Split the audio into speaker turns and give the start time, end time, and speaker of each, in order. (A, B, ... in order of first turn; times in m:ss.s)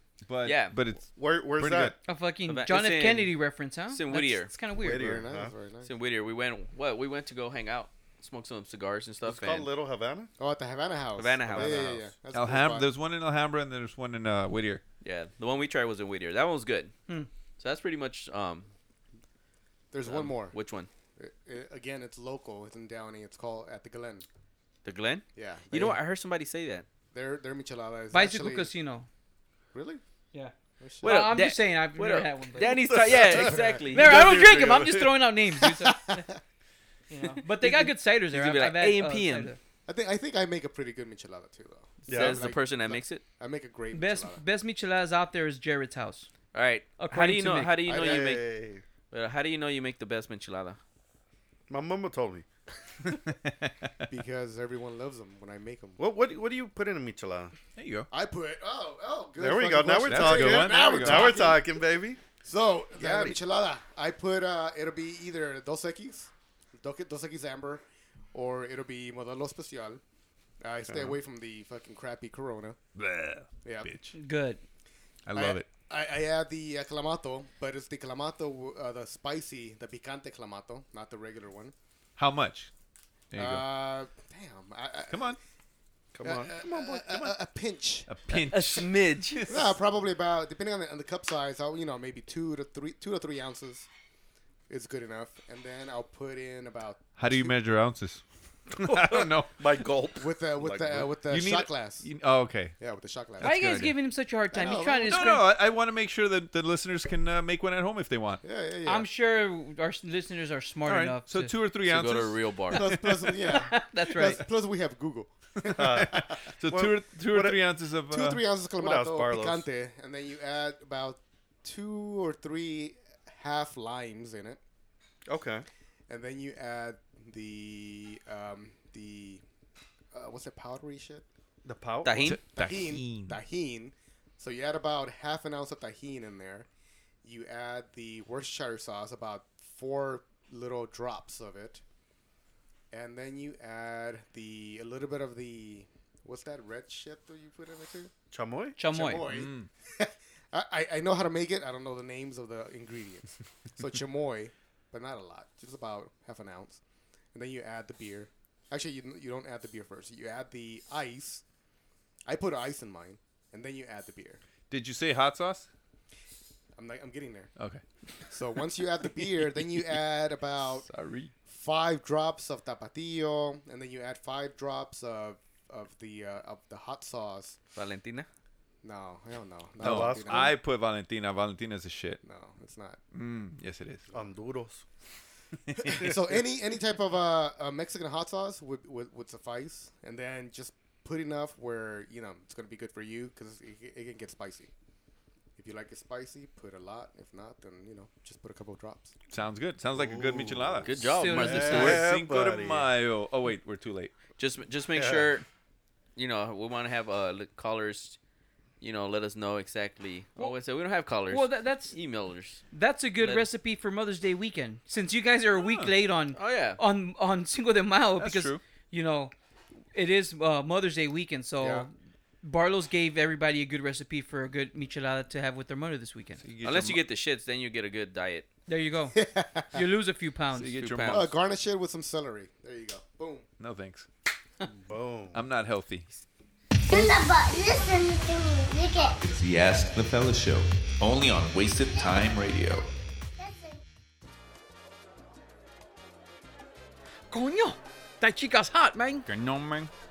0:00.3-0:01.9 A
0:00.4-0:00.8 B
0:01.1-0:02.0 C
0:02.0-0:05.1 D
0:02.5-0:03.3 B
0:03.9-0:04.5 B
0:04.8-0:05.5 C
0:04.8-0:05.9 E
0:05.8-0:09.7 B
0:09.2-0:10.3 C
0:10.4-0:12.9 E
0:11.2-0:12.1 B
0:11.5-0:11.8 C
0:12.3-0:14.8 A
0:15.0-0:16.9 B
0:17.6-0:18.7 B
0:19.9-0:20.6 E
0:20.0-0:20.9 B
0:21.2-0:24.2 E
0:24.8-0:26.8 B
0:25.4-0:26.0 E
0:27.1-0:28.7 E
0:28.1-0:29.1 D
0:29.7-0:30.0 E
0:30.3-0:32.8 D
0:30.8-0:31.2 E
0:31.0-0:34.2 B
0:32.8-0:35.2 C
0:33.2-0:33.8 E
0:33.9-0:36.2 D
0:35.8-0:36.4 E
0:37.1-0:39.6 D
0:37.5-0:39.5 B
0:39.9-0:44.4 E
0:42.1-0:43.2 B
0:42.1-0:42.5 C
0:43.9-0:46.3 D
0:46.5-0:48.5 B
0:47.0-0:47.9 D
0:47.8-0:48.8 C
0:49.1-0:50.8 B
0:51.7-0:52.4 C
0:53.0-0:53.9 A
0:54.1-0:56.0 E
0:56.0-0:57.5 C
0:57.8-0:58.1 A
0:58.1-1:01.6 E
0:59.4-1:02.2 C
1:00.0-1:01.5 A
1:02.4-1:10.0 E
1:03.0-1:03.4 C
1:10.6-1:12.8 E
1:10.9-1:11.1 C
1:13.0-1:14.1 A
1:13.6-1:13.9 E
1:14.1-1:14.6 D
1:15.3-1:15.7 A
1:15.3-1:21.7 E
1:22.2-1:22.7 A
1:23.3-1:23.7 A
1:23.4-1:25.4 E
1:25.1-1:25.4 A
1:26.1-1:27.3 C
1:26.2-1:28.1 E
1:28.1-1:29.7 A
1:28.5-1:29.4 D
1:28.6-1:29.0 B
1:29.5-1:33.9 E
1:34.7-1:37.5 E
1:37.2-1:38.2 A
1:38.7-1:39.6 A
1:38.8-1:41.2 C
1:40.2-1:42.1 E
1:41.3-1:42.8 A
1:42.8-1:43.5 E
1:43.4-1:43.9 A
1:43.4-1:45.5 D
1:44.5-1:45.2 E
1:45.1-1:48.4 A
1:48.4-1:49.1 E
1:48.8-1:51.6 D
1:50.8-1:52.4 A
1:51.9-1:52.8 B
1:52.7-1:55.8 E
1:53.0-1:54.4 D
1:55.6-1:58.4 A
1:55.7-1:57.6 C
1:58.1-2:04.6 E
1:58.8-1:59.6 C
2:05.3-2:05.6 C
2:06.1-2:09.4 E
2:10.1-2:11.2 E
2:11.6-2:12.4 C
2:12.0-2:12.4 B
2:12.2-2:13.4 A
2:12.6-2:16.7 E
2:17.2-2:21.8 E
2:22.9-2:28.1 E
2:28.3-2:28.8 C
2:28.8-2:29.2 D
2:28.9-2:36.8 E
2:29.2-2:29.7 A
2:37.3-2:41.4 E
2:42.2-2:44.4 E
2:44.7-2:45.7 A
2:46.8-2:47.5 E
2:47.6-2:47.8 A
2:48.3-2:50.9 E
2:50.8-2:51.3 A
2:51.5-2:57.6 E
2:57.7-2:58.3 B
2:58.8-3:00.5 E
2:59.8-3:02.2 A
2:59.8-3:00.5 C
3:02.2-3:03.0 E
3:03.1-3:04.0 A
3:04.1-3:04.8 C
3:05.7-3:06.0 A
3:05.8-3:14.7 E
3:15.6-3:19.2 E
3:19.3-3:24.1 A
3:19.9-3:22.9 C
3:20.8-3:22.0 B
3:21.0-3:22.0 D
3:24.4-3:25.4 B
3:24.9-3:25.3 C
3:26.2-3:28.2 B
3:28.8-3:32.6 B
3:31.3-3:32.0 D
3:32.7-3:39.3 D
3:33.2-3:33.5 B
3:35.6-3:35.9 A
3:36.3-3:36.8 B
3:38.2-3:38.6 A
3:39.9-3:46.4 D
3:41.6-3:41.9 E
3:46.4-3:47.0 A
3:46.6-3:48.4 B
3:48.7-3:49.2 D
3:49.1-3:49.7 E
3:49.7-3:50.8 D
3:50.6-3:51.3 A
3:50.8-3:51.3 B
3:51.1-3:53.4 E
3:53.6-3:54.1 A
3:54.7-3:55.4 C
3:55.3-3:56.1 A
3:56.9-3:59.2 F
3:59.2-4:02.8 G
4:03.4-4:03.8 F
4:07.3-4:09.3 D
4:09.2-4:09.9 A